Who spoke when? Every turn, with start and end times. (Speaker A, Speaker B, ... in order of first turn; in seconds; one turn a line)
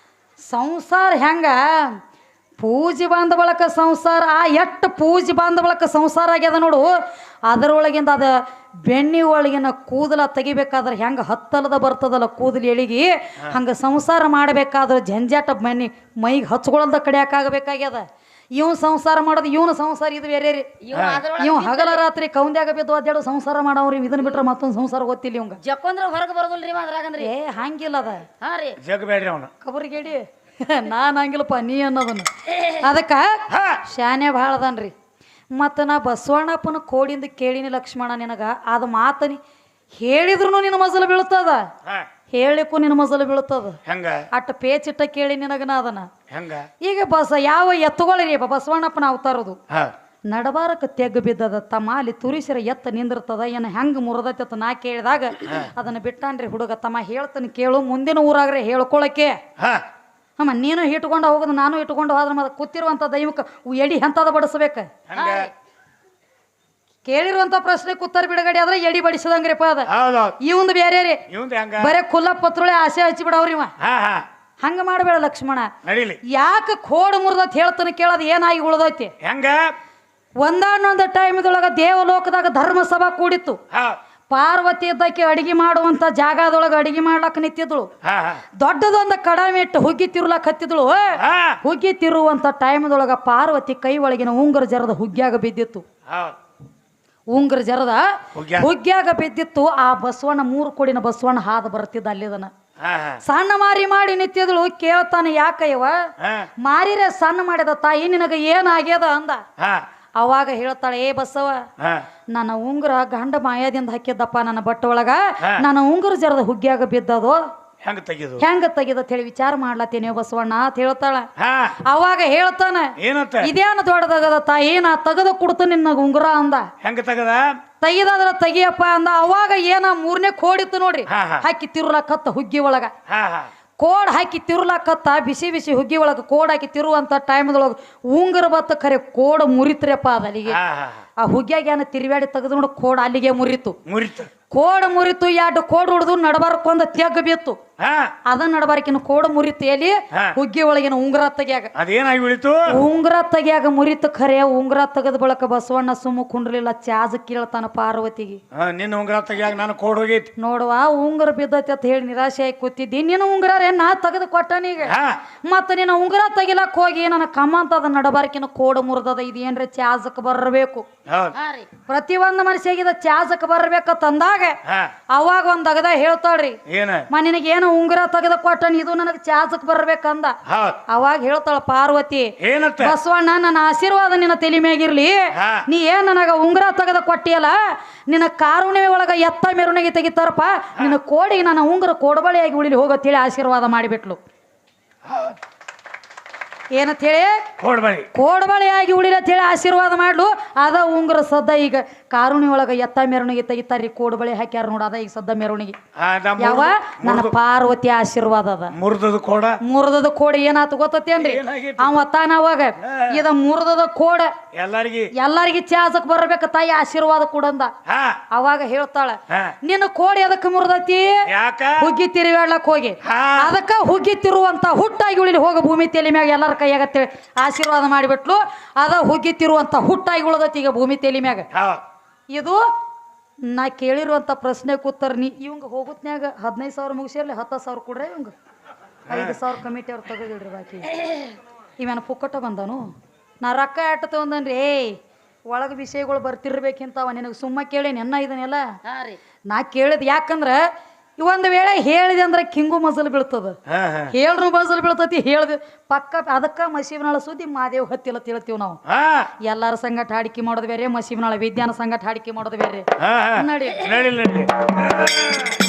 Speaker A: 0.5-2.0
Speaker A: 2.6-7.0
Speaker A: 7.5-20.8
Speaker B: 20.8-22.0
Speaker C: 20.9-21.2
Speaker A: 21.4-25.6
Speaker B: 25.6-27.3
Speaker A: 27.2-28.3
Speaker B: 28.4-28.8
Speaker C: 28.8-29.5
Speaker A: 29.6-34.9
Speaker C: 33.5-33.8
Speaker A: 35.6-39.4
Speaker A: 40.0-41.7
Speaker A: 42.3-43.8
Speaker C: 43.9-44.2
Speaker A: 44.3-46.1
Speaker C: 46.3-46.7
Speaker A: 46.8-49.6
Speaker A: 50.3-59.4
Speaker C: 59.6-59.8
Speaker A: 60.4-64.9
Speaker C: 65.1-65.5
Speaker B: 65.2-65.5
Speaker A: 67.0-69.9
Speaker C: 69.9-70.4
Speaker A: 70.4-71.2
Speaker C: 71.3-72.0
Speaker A: 71.8-73.7
Speaker C: 73.8-74.2
Speaker A: 74.6-75.7
Speaker C: 75.8-76.2
Speaker A: 76.3-79.1
Speaker C: 79.2-79.8
Speaker A: 80.4-83.6
Speaker C: 83.7-84.0
Speaker A: 84.3-87.9
Speaker C: 88.0-88.4
Speaker A: 88.6-95.8
Speaker C: 91.2-91.6
Speaker C: 96.1-96.4
Speaker A: 97.3-102.5
Speaker C: 98.3-98.7
Speaker C: 102.8-103.2
Speaker A: 103.2-106.1
Speaker C: 106.2-106.5
Speaker A: 106.6-109.4
Speaker A: 110.2-111.7
Speaker C: 111.8-112.1
Speaker A: 112.3-117.4
Speaker C: 117.8-118.5
Speaker A: 118.4-121.3
Speaker C: 121.4-121.8
Speaker A: 121.8-126.7
Speaker C: 123.0-123.5
Speaker C: 126.8-127.5
Speaker A: 127.8-132.9
Speaker C: 131.1-131.4
Speaker C: 133.1-133.5
Speaker A: 133.8-140.6
Speaker C: 140.5-141.0
Speaker A: 141.2-143.8
Speaker C: 143.9-144.3
Speaker A: 144.5-147.6
Speaker C: 147.8-148.1
Speaker A: 148.3-151.7
Speaker C: 151.8-152.6
Speaker A: 152.7-158.4
Speaker C: 158.5-160.3
Speaker A: 160.4-164.9
Speaker C: 164.8-165.2
Speaker A: 165.5-170.9
Speaker C: 171.1-171.4
Speaker B: 171.3-171.7
Speaker A: 171.9-174.6
Speaker C: 174.7-174.9
Speaker A: 175.1-176.6
Speaker C: 176.7-177.1
Speaker A: 177.1-180.4
Speaker C: 180.5-180.8
Speaker A: 180.9-194.2
Speaker C: 182.4-183.0
Speaker C: 185.3-185.6
Speaker C: 195.1-195.4
Speaker A: 196.7-197.5
Speaker C: 197.6-198.1
Speaker A: 198.2-205.8
Speaker C: 206.0-207.4
Speaker A: 206.4-208.8
Speaker C: 208.7-209.6
Speaker A: 209.6-214.3
Speaker C: 211.2-211.9
Speaker C: 212.8-213.2
Speaker C: 214.6-215.1
Speaker A: 215.2-217.7
Speaker C: 217.9-218.2
Speaker A: 218.3-221.3
Speaker C: 221.3-221.9
Speaker A: 221.8-231.5
Speaker C: 223.0-223.6
Speaker C: 231.5-231.8
Speaker A: 232.3-232.6
Speaker A: 233.5-238.3
Speaker C: 239.1-239.4
Speaker A: 239.1-241.0
Speaker A: 241.8-248.8
Speaker B: 248.8-249.2
Speaker A: 249.5-250.6
Speaker A: 251.2-253.6
Speaker C: 253.7-254.1
Speaker A: 254.1-258.8
Speaker C: 258.9-259.3
Speaker A: 259.4-263.9
Speaker C: 263.0-265.6